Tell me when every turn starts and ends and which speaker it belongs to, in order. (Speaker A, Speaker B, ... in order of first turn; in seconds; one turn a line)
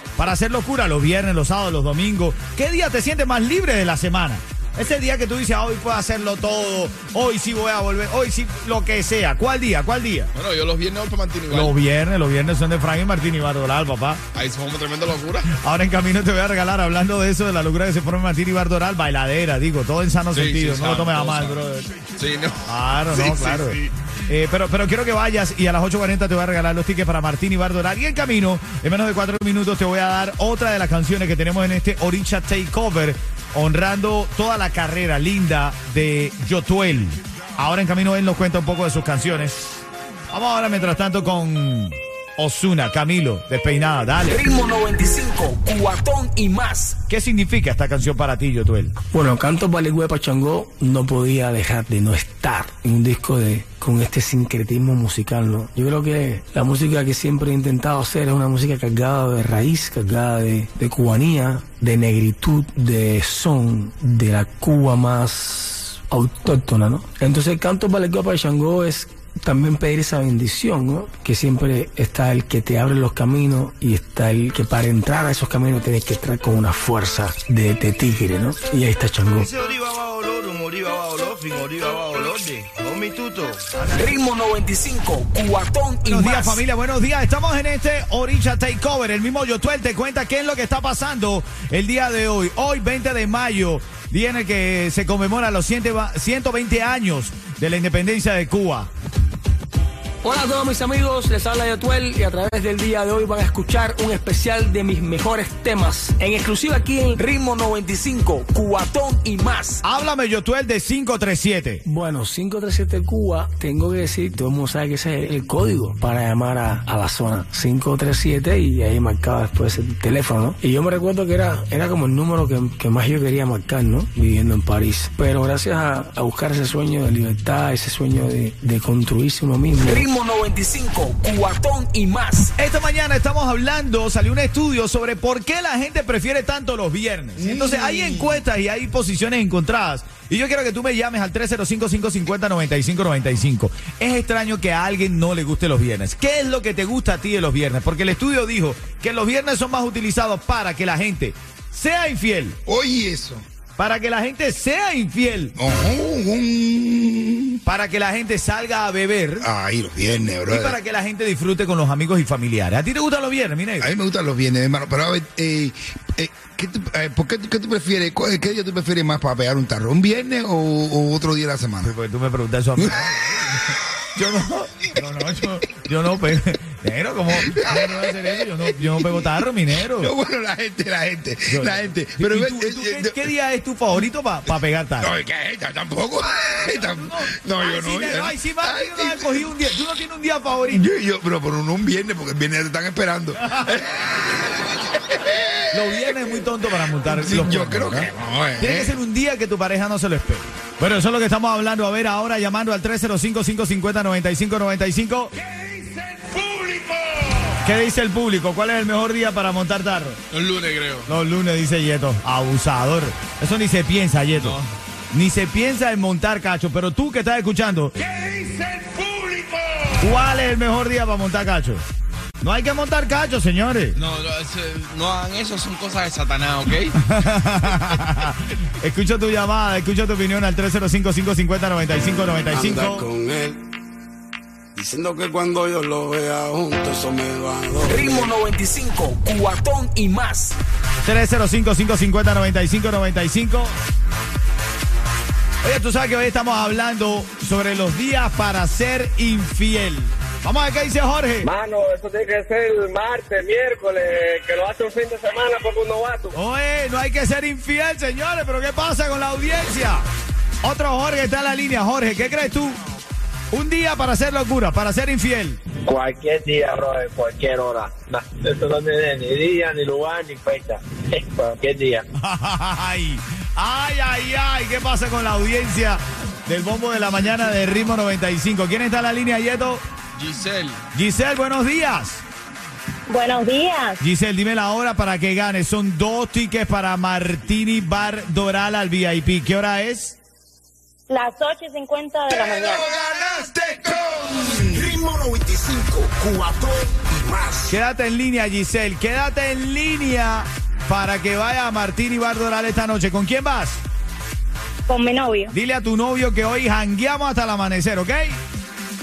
Speaker A: 0.2-10.3
Speaker B: 10.3-11.8
Speaker A: 11.5-14.2
Speaker B: 14.3-15.5
Speaker A: 15.6-21.9
Speaker B: 20.3-21.6
Speaker B: 22.1-23.9
Speaker A: 22.7-44.4
Speaker C: 44.2-47.0
Speaker A: 47.1-48.9
Speaker D: 49.1-79.5
Speaker E: 79.4-84.2
Speaker C: 83.9-86.6
Speaker A: 86.0-98.9
Speaker D: 100.2-107.2
Speaker C: 107.2-109.8
Speaker A: 109.8-111.8
Speaker D: 111.8-130.1
Speaker C: 129.8-132.5
Speaker A: 132.6-152.6
Speaker F: 137.4-138.2
Speaker F: 152.7-153.4
Speaker A: 153.8-155.5
Speaker F: 155.6-157.6
Speaker A: 157.6-159.4
Speaker F: 159.4-160.8
Speaker A: 160.5-163.9
Speaker F: 163.8-171.9
Speaker A: 171.8-173.6
Speaker A: 174.2-180.1
Speaker F: 177.3-179.3
Speaker F: 179.8-183.3
Speaker A: 181.5-185.1
Speaker F: 185.0-189.6
Speaker A: 186.7-190.8
Speaker F: 190.7-196.5
Speaker A: 193.4-193.7
Speaker A: 195.7-198.1
Speaker F: 197.1-198.9
Speaker A: 198.6-205.3
Speaker B: 205.4-207.3
Speaker A: 207.6-210.2
Speaker B: 210.3-211.1
Speaker A: 211.1-214.6
Speaker B: 214.3-214.7
Speaker A: 215.1-217.9
Speaker B: 218.0-219.9
Speaker A: 220.0-221.8
Speaker A: 222.4-224.0
Speaker B: 223.9-227.0
Speaker A: 227.0-233.0
Speaker G: 232.5-233.6
Speaker G: 234.7-238.4
Speaker C: 237.9-240.6
Speaker A: 241.0-243.7
Speaker A: 245.6-251.5
Speaker H: 251.4-256.4
Speaker A: 256.3-260.0
Speaker A: 260.6-262.8
Speaker A: 263.5-265.6
Speaker H: 265.8-272.0
Speaker A: 272.2-279.8
Speaker B: 280.1-280.8
Speaker A: 280.9-282.2
Speaker I: 283.1-284.0
Speaker A: 284.0-290.2
Speaker I: 291.1-292.8
Speaker F: 292.3-294.8
Speaker E: 294.7-297.2
Speaker A: 297.7-303.8
Speaker I: 304.9-305.5
Speaker A: 305.5-308.4